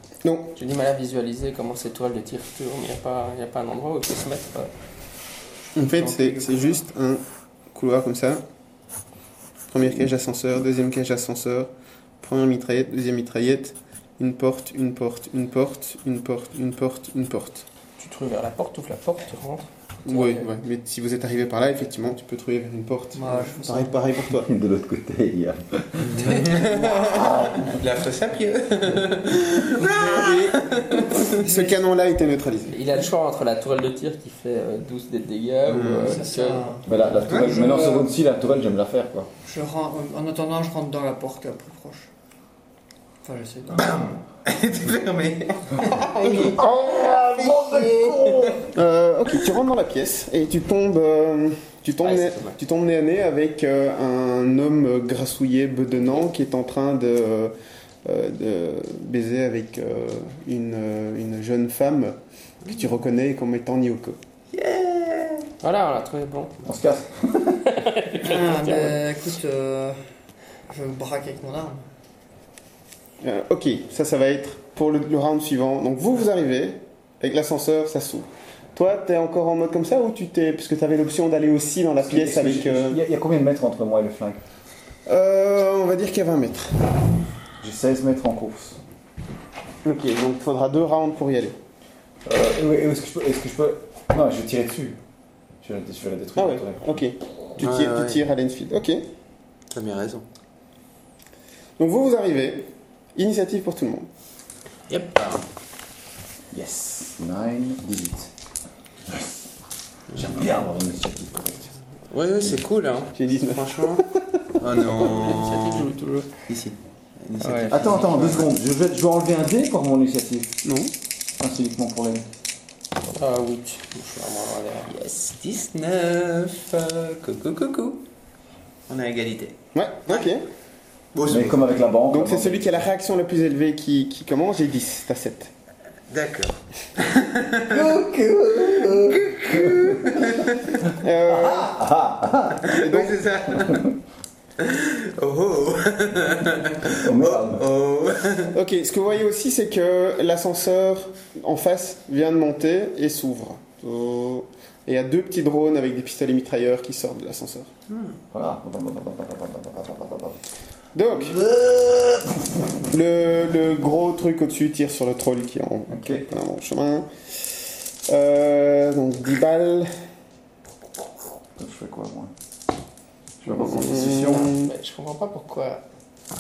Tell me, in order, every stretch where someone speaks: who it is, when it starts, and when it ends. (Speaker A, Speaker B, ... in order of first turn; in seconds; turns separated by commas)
Speaker A: 0.2-0.5, Speaker B: 0.5-4.7, Speaker A: 5.8-8.4, Speaker C: 5.8-6.8, Speaker A: 9.7-17.6, Speaker B: 18.0-20.5, Speaker A: 20.1-24.5, Speaker C: 23.1-24.0, Speaker D: 24.3-27.8, Speaker E: 26.0-31.4, Speaker C: 29.8-31.8, Speaker A: 31.3-32.8, Speaker B: 32.7-37.1, Speaker A: 35.7-36.2, Speaker C: 36.0-38.0, Speaker D: 36.9-39.3, Speaker C: 39.5-42.1, Speaker C: 43.2-44.0, Speaker E: 43.7-48.6, Speaker A: 46.2-46.6, Speaker D: 46.3-48.6, Speaker A: 48.7-57.5, Speaker E: 52.0-52.4, Speaker A: 58.0-64.2, Speaker E: 64.5-65.5, Speaker B: 65.6-66.6, Speaker D: 66.7-67.7, Speaker B: 67.7-69.0, Speaker C: 68.2-70.1, Speaker C: 70.7-71.8, Speaker A: 73.2-83.0, Speaker D: 82.0-84.4, Speaker A: 85.1-86.9, Speaker D: 87.6-88.8, Speaker A: 89.8-91.6, Speaker D: 92.2-95.0, Speaker D: 95.6-97.0, Speaker A: 96.4-99.1, Speaker E: 97.6-98.2, Speaker E: 99.7-100.2, Speaker A: 101.8-104.1, Speaker E: 104.9-105.5, Speaker D: 106.5-108.3, Speaker D: 109.1-109.4, Speaker D: 110.1-111.7, Speaker E: 112.1-114.0, Speaker A: 113.2-114.4, Speaker E: 114.6-115.9, Speaker B: 114.9-116.3, Speaker E: 116.4-118.5, Speaker B: 117.4-118.4, Speaker D: 117.7-120.6, Speaker A: 120.7-120.9, Speaker D: 121.4-122.3, Speaker B: 123.2-124.9, Speaker E: 124.9-128.0, Speaker E: 128.9-130.4, Speaker A: 129.8-130.4, Speaker E: 131.1-131.8, Speaker D: 131.3-132.8, Speaker A: 132.1-135.5, Speaker E: 136.1-137.9, Speaker D: 137.7-142.8, Speaker E: 139.0-140.8, Speaker A: 140.9-141.8, Speaker E: 142.6-143.9, Speaker A: 142.8-143.2, Speaker D: 143.6-143.9, Speaker E: 144.6-148.6, Speaker D: 146.8-147.7, Speaker A: 148.5-157.7, Speaker E: 157.9-158.2, Speaker D: 158.3-160.4, Speaker A: 160.9-161.4, Speaker D: 161.1-162.9, Speaker A: 162.9-169.9, Speaker D: 165.9-166.3, Speaker D: 171.6-172.3, Speaker D: 173.4-174.5, Speaker A: 173.4-174.7, Speaker B: 174.1-175.8